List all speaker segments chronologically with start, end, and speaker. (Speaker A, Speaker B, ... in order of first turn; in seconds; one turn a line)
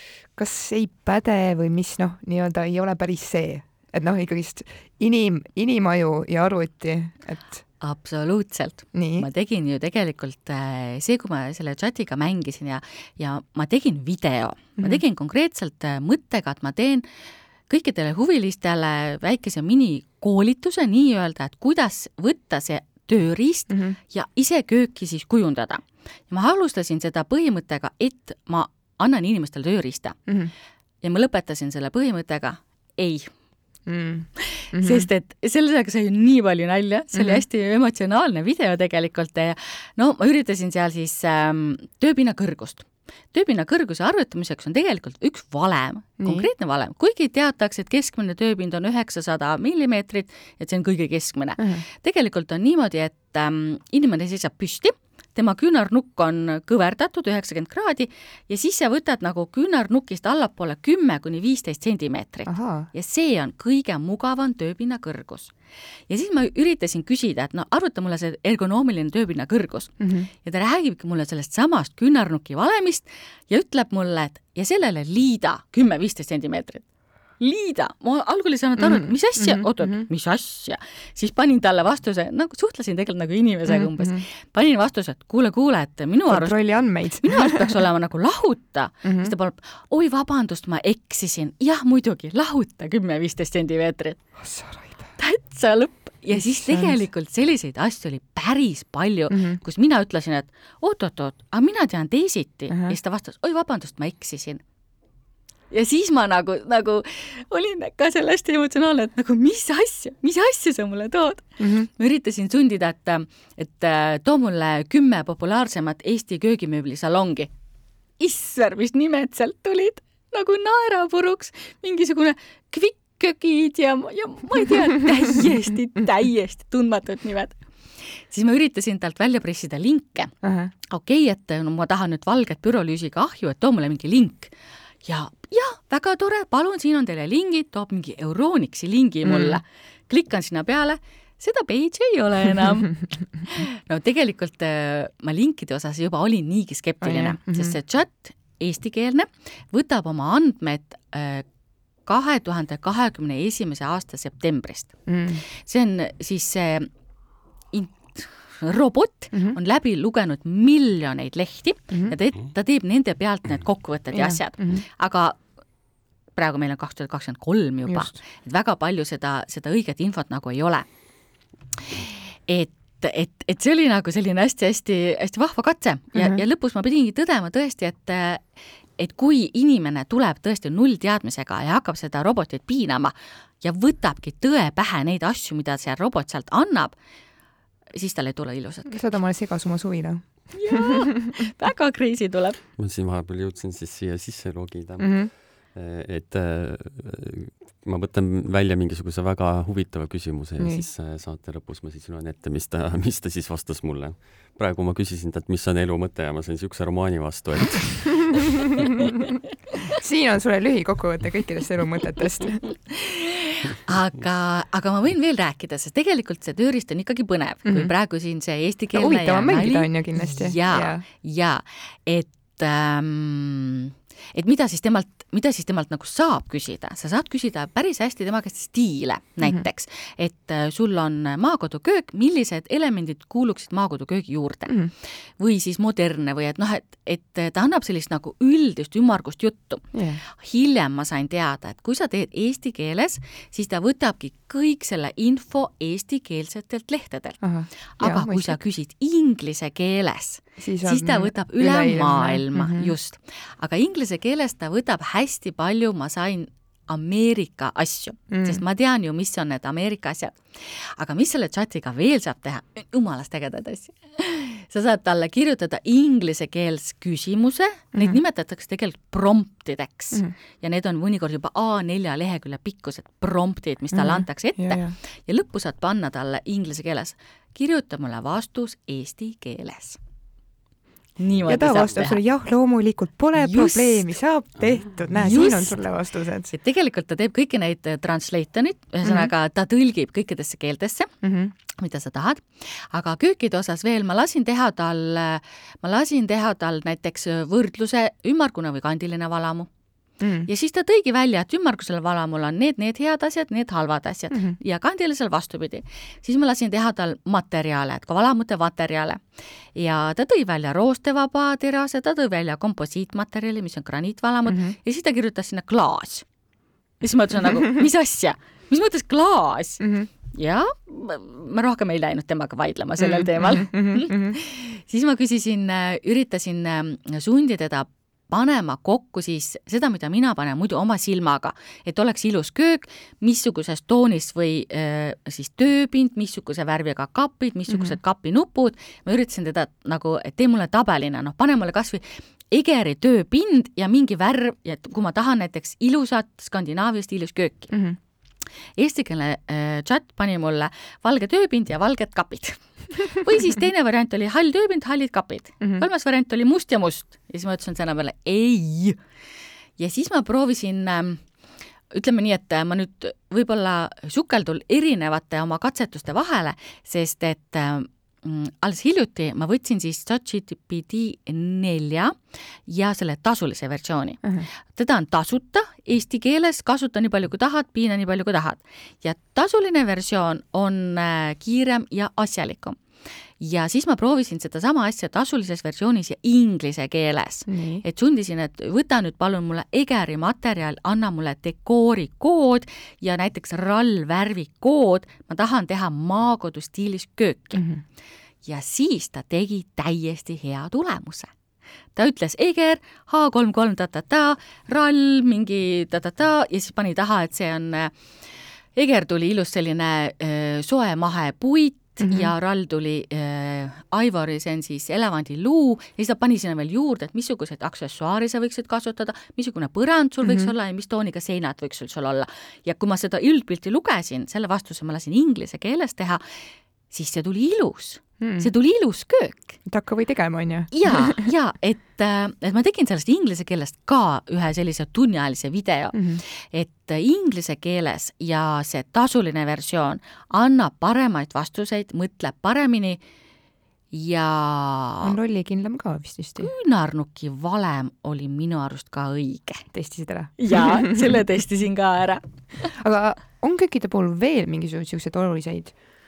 Speaker A: 0.4-7.6
Speaker B: 7.8-17.0
Speaker A: 8.9-9.3
Speaker B: 17.7-30.2
Speaker A: 23.7-23.9
Speaker B: 31.0-33.3
Speaker A: 33.9-35.0
Speaker B: 34.4-65.5
Speaker A: 37.1-37.4
Speaker A: 46.2-46.5
Speaker A: 51.6-51.8
Speaker A: 62.5-62.9
Speaker B: 66.1-76.8
Speaker A: 70.0-70.3
Speaker B: 77.4-86.5
Speaker A: 78.8-80.0
Speaker A: 83.7-84.2
Speaker A: 86.3-87.8
Speaker B: 87.2-94.2
Speaker A: 89.0-89.3
Speaker A: 94.4-95.1
Speaker B: 95.2-104.6
Speaker A: 96.3-97.0
Speaker A: 99.3-99.6
Speaker A: 102.7-103.0
Speaker B: 105.7-117.5
Speaker A: 111.6-111.9
Speaker B: 118.2-130.3
Speaker A: 130.4-130.7
Speaker B: 130.9-134.5
Speaker B: 135.0-151.4
Speaker A: 139.2-139.6
Speaker A: 147.0-147.8
Speaker B: 152.1-156.9
Speaker A: 155.1-155.4
Speaker B: 157.7-165.4
Speaker A: 161.9-162.2
Speaker A: 164.1-164.8
Speaker B: 166.3-170.8
Speaker A: 167.9-168.1
Speaker B: 171.9-178.4
Speaker A: 176.1-176.4
Speaker B: 179.0-186.9
Speaker B: 187.9-189.0
Speaker A: 188.8-191.3
Speaker B: 190.5-192.6
Speaker C: 192.8-208.6
Speaker A: 195.0-195.3
Speaker A: 200.6-200.8
Speaker A: 208.9-209.2
Speaker A: 209.9-212.7
Speaker B: 212.9-234.8
Speaker A: 217.7-217.9
Speaker A: 218.9-221.0
Speaker B: 235.4-280.0
Speaker A: 239.9-240.2
Speaker A: 247.4-248.6
Speaker A: 250.6-252.9
Speaker A: 258.3-258.6
Speaker A: 273.9-274.9
Speaker B: 281.2-282.2
Speaker A: 281.4-286.5
Speaker B: 283.4-284.0
Speaker B: 285.2-285.8
Speaker B: 286.5-291.1
Speaker A: 289.0-289.3
Speaker A: 291.2-291.5
Speaker B: 291.7-299.7
Speaker A: 300.2-300.5
Speaker B: 300.5-309.2
Speaker B: 309.7-316.2
Speaker A: 314.5-314.7
Speaker B: 317.0-347.7
Speaker A: 319.8-320.1
Speaker A: 323.0-324.4
Speaker A: 337.7-337.9
Speaker A: 347.7-348.0
Speaker B: 348.8-359.0
Speaker B: 359.8-361.2
Speaker B: 361.9-382.8
Speaker B: 383.4-397.6
Speaker A: 387.5-387.8
Speaker A: 397.6-397.8
Speaker B: 398.4-401.3
Speaker B: 401.9-407.9
Speaker B: 408.7-426.2
Speaker A: 412.0-412.3
Speaker A: 420.2-420.5
Speaker B: 426.9-429.6
Speaker A: 428.2-428.5
Speaker A: 429.6-431.3
Speaker B: 430.7-443.0
Speaker A: 435.9-436.2
Speaker B: 443.9-445.1
Speaker A: 445.0-446.5
Speaker B: 446.4-449.6
Speaker A: 449.7-451.1
Speaker B: 450.4-452.2
Speaker A: 452.7-455.7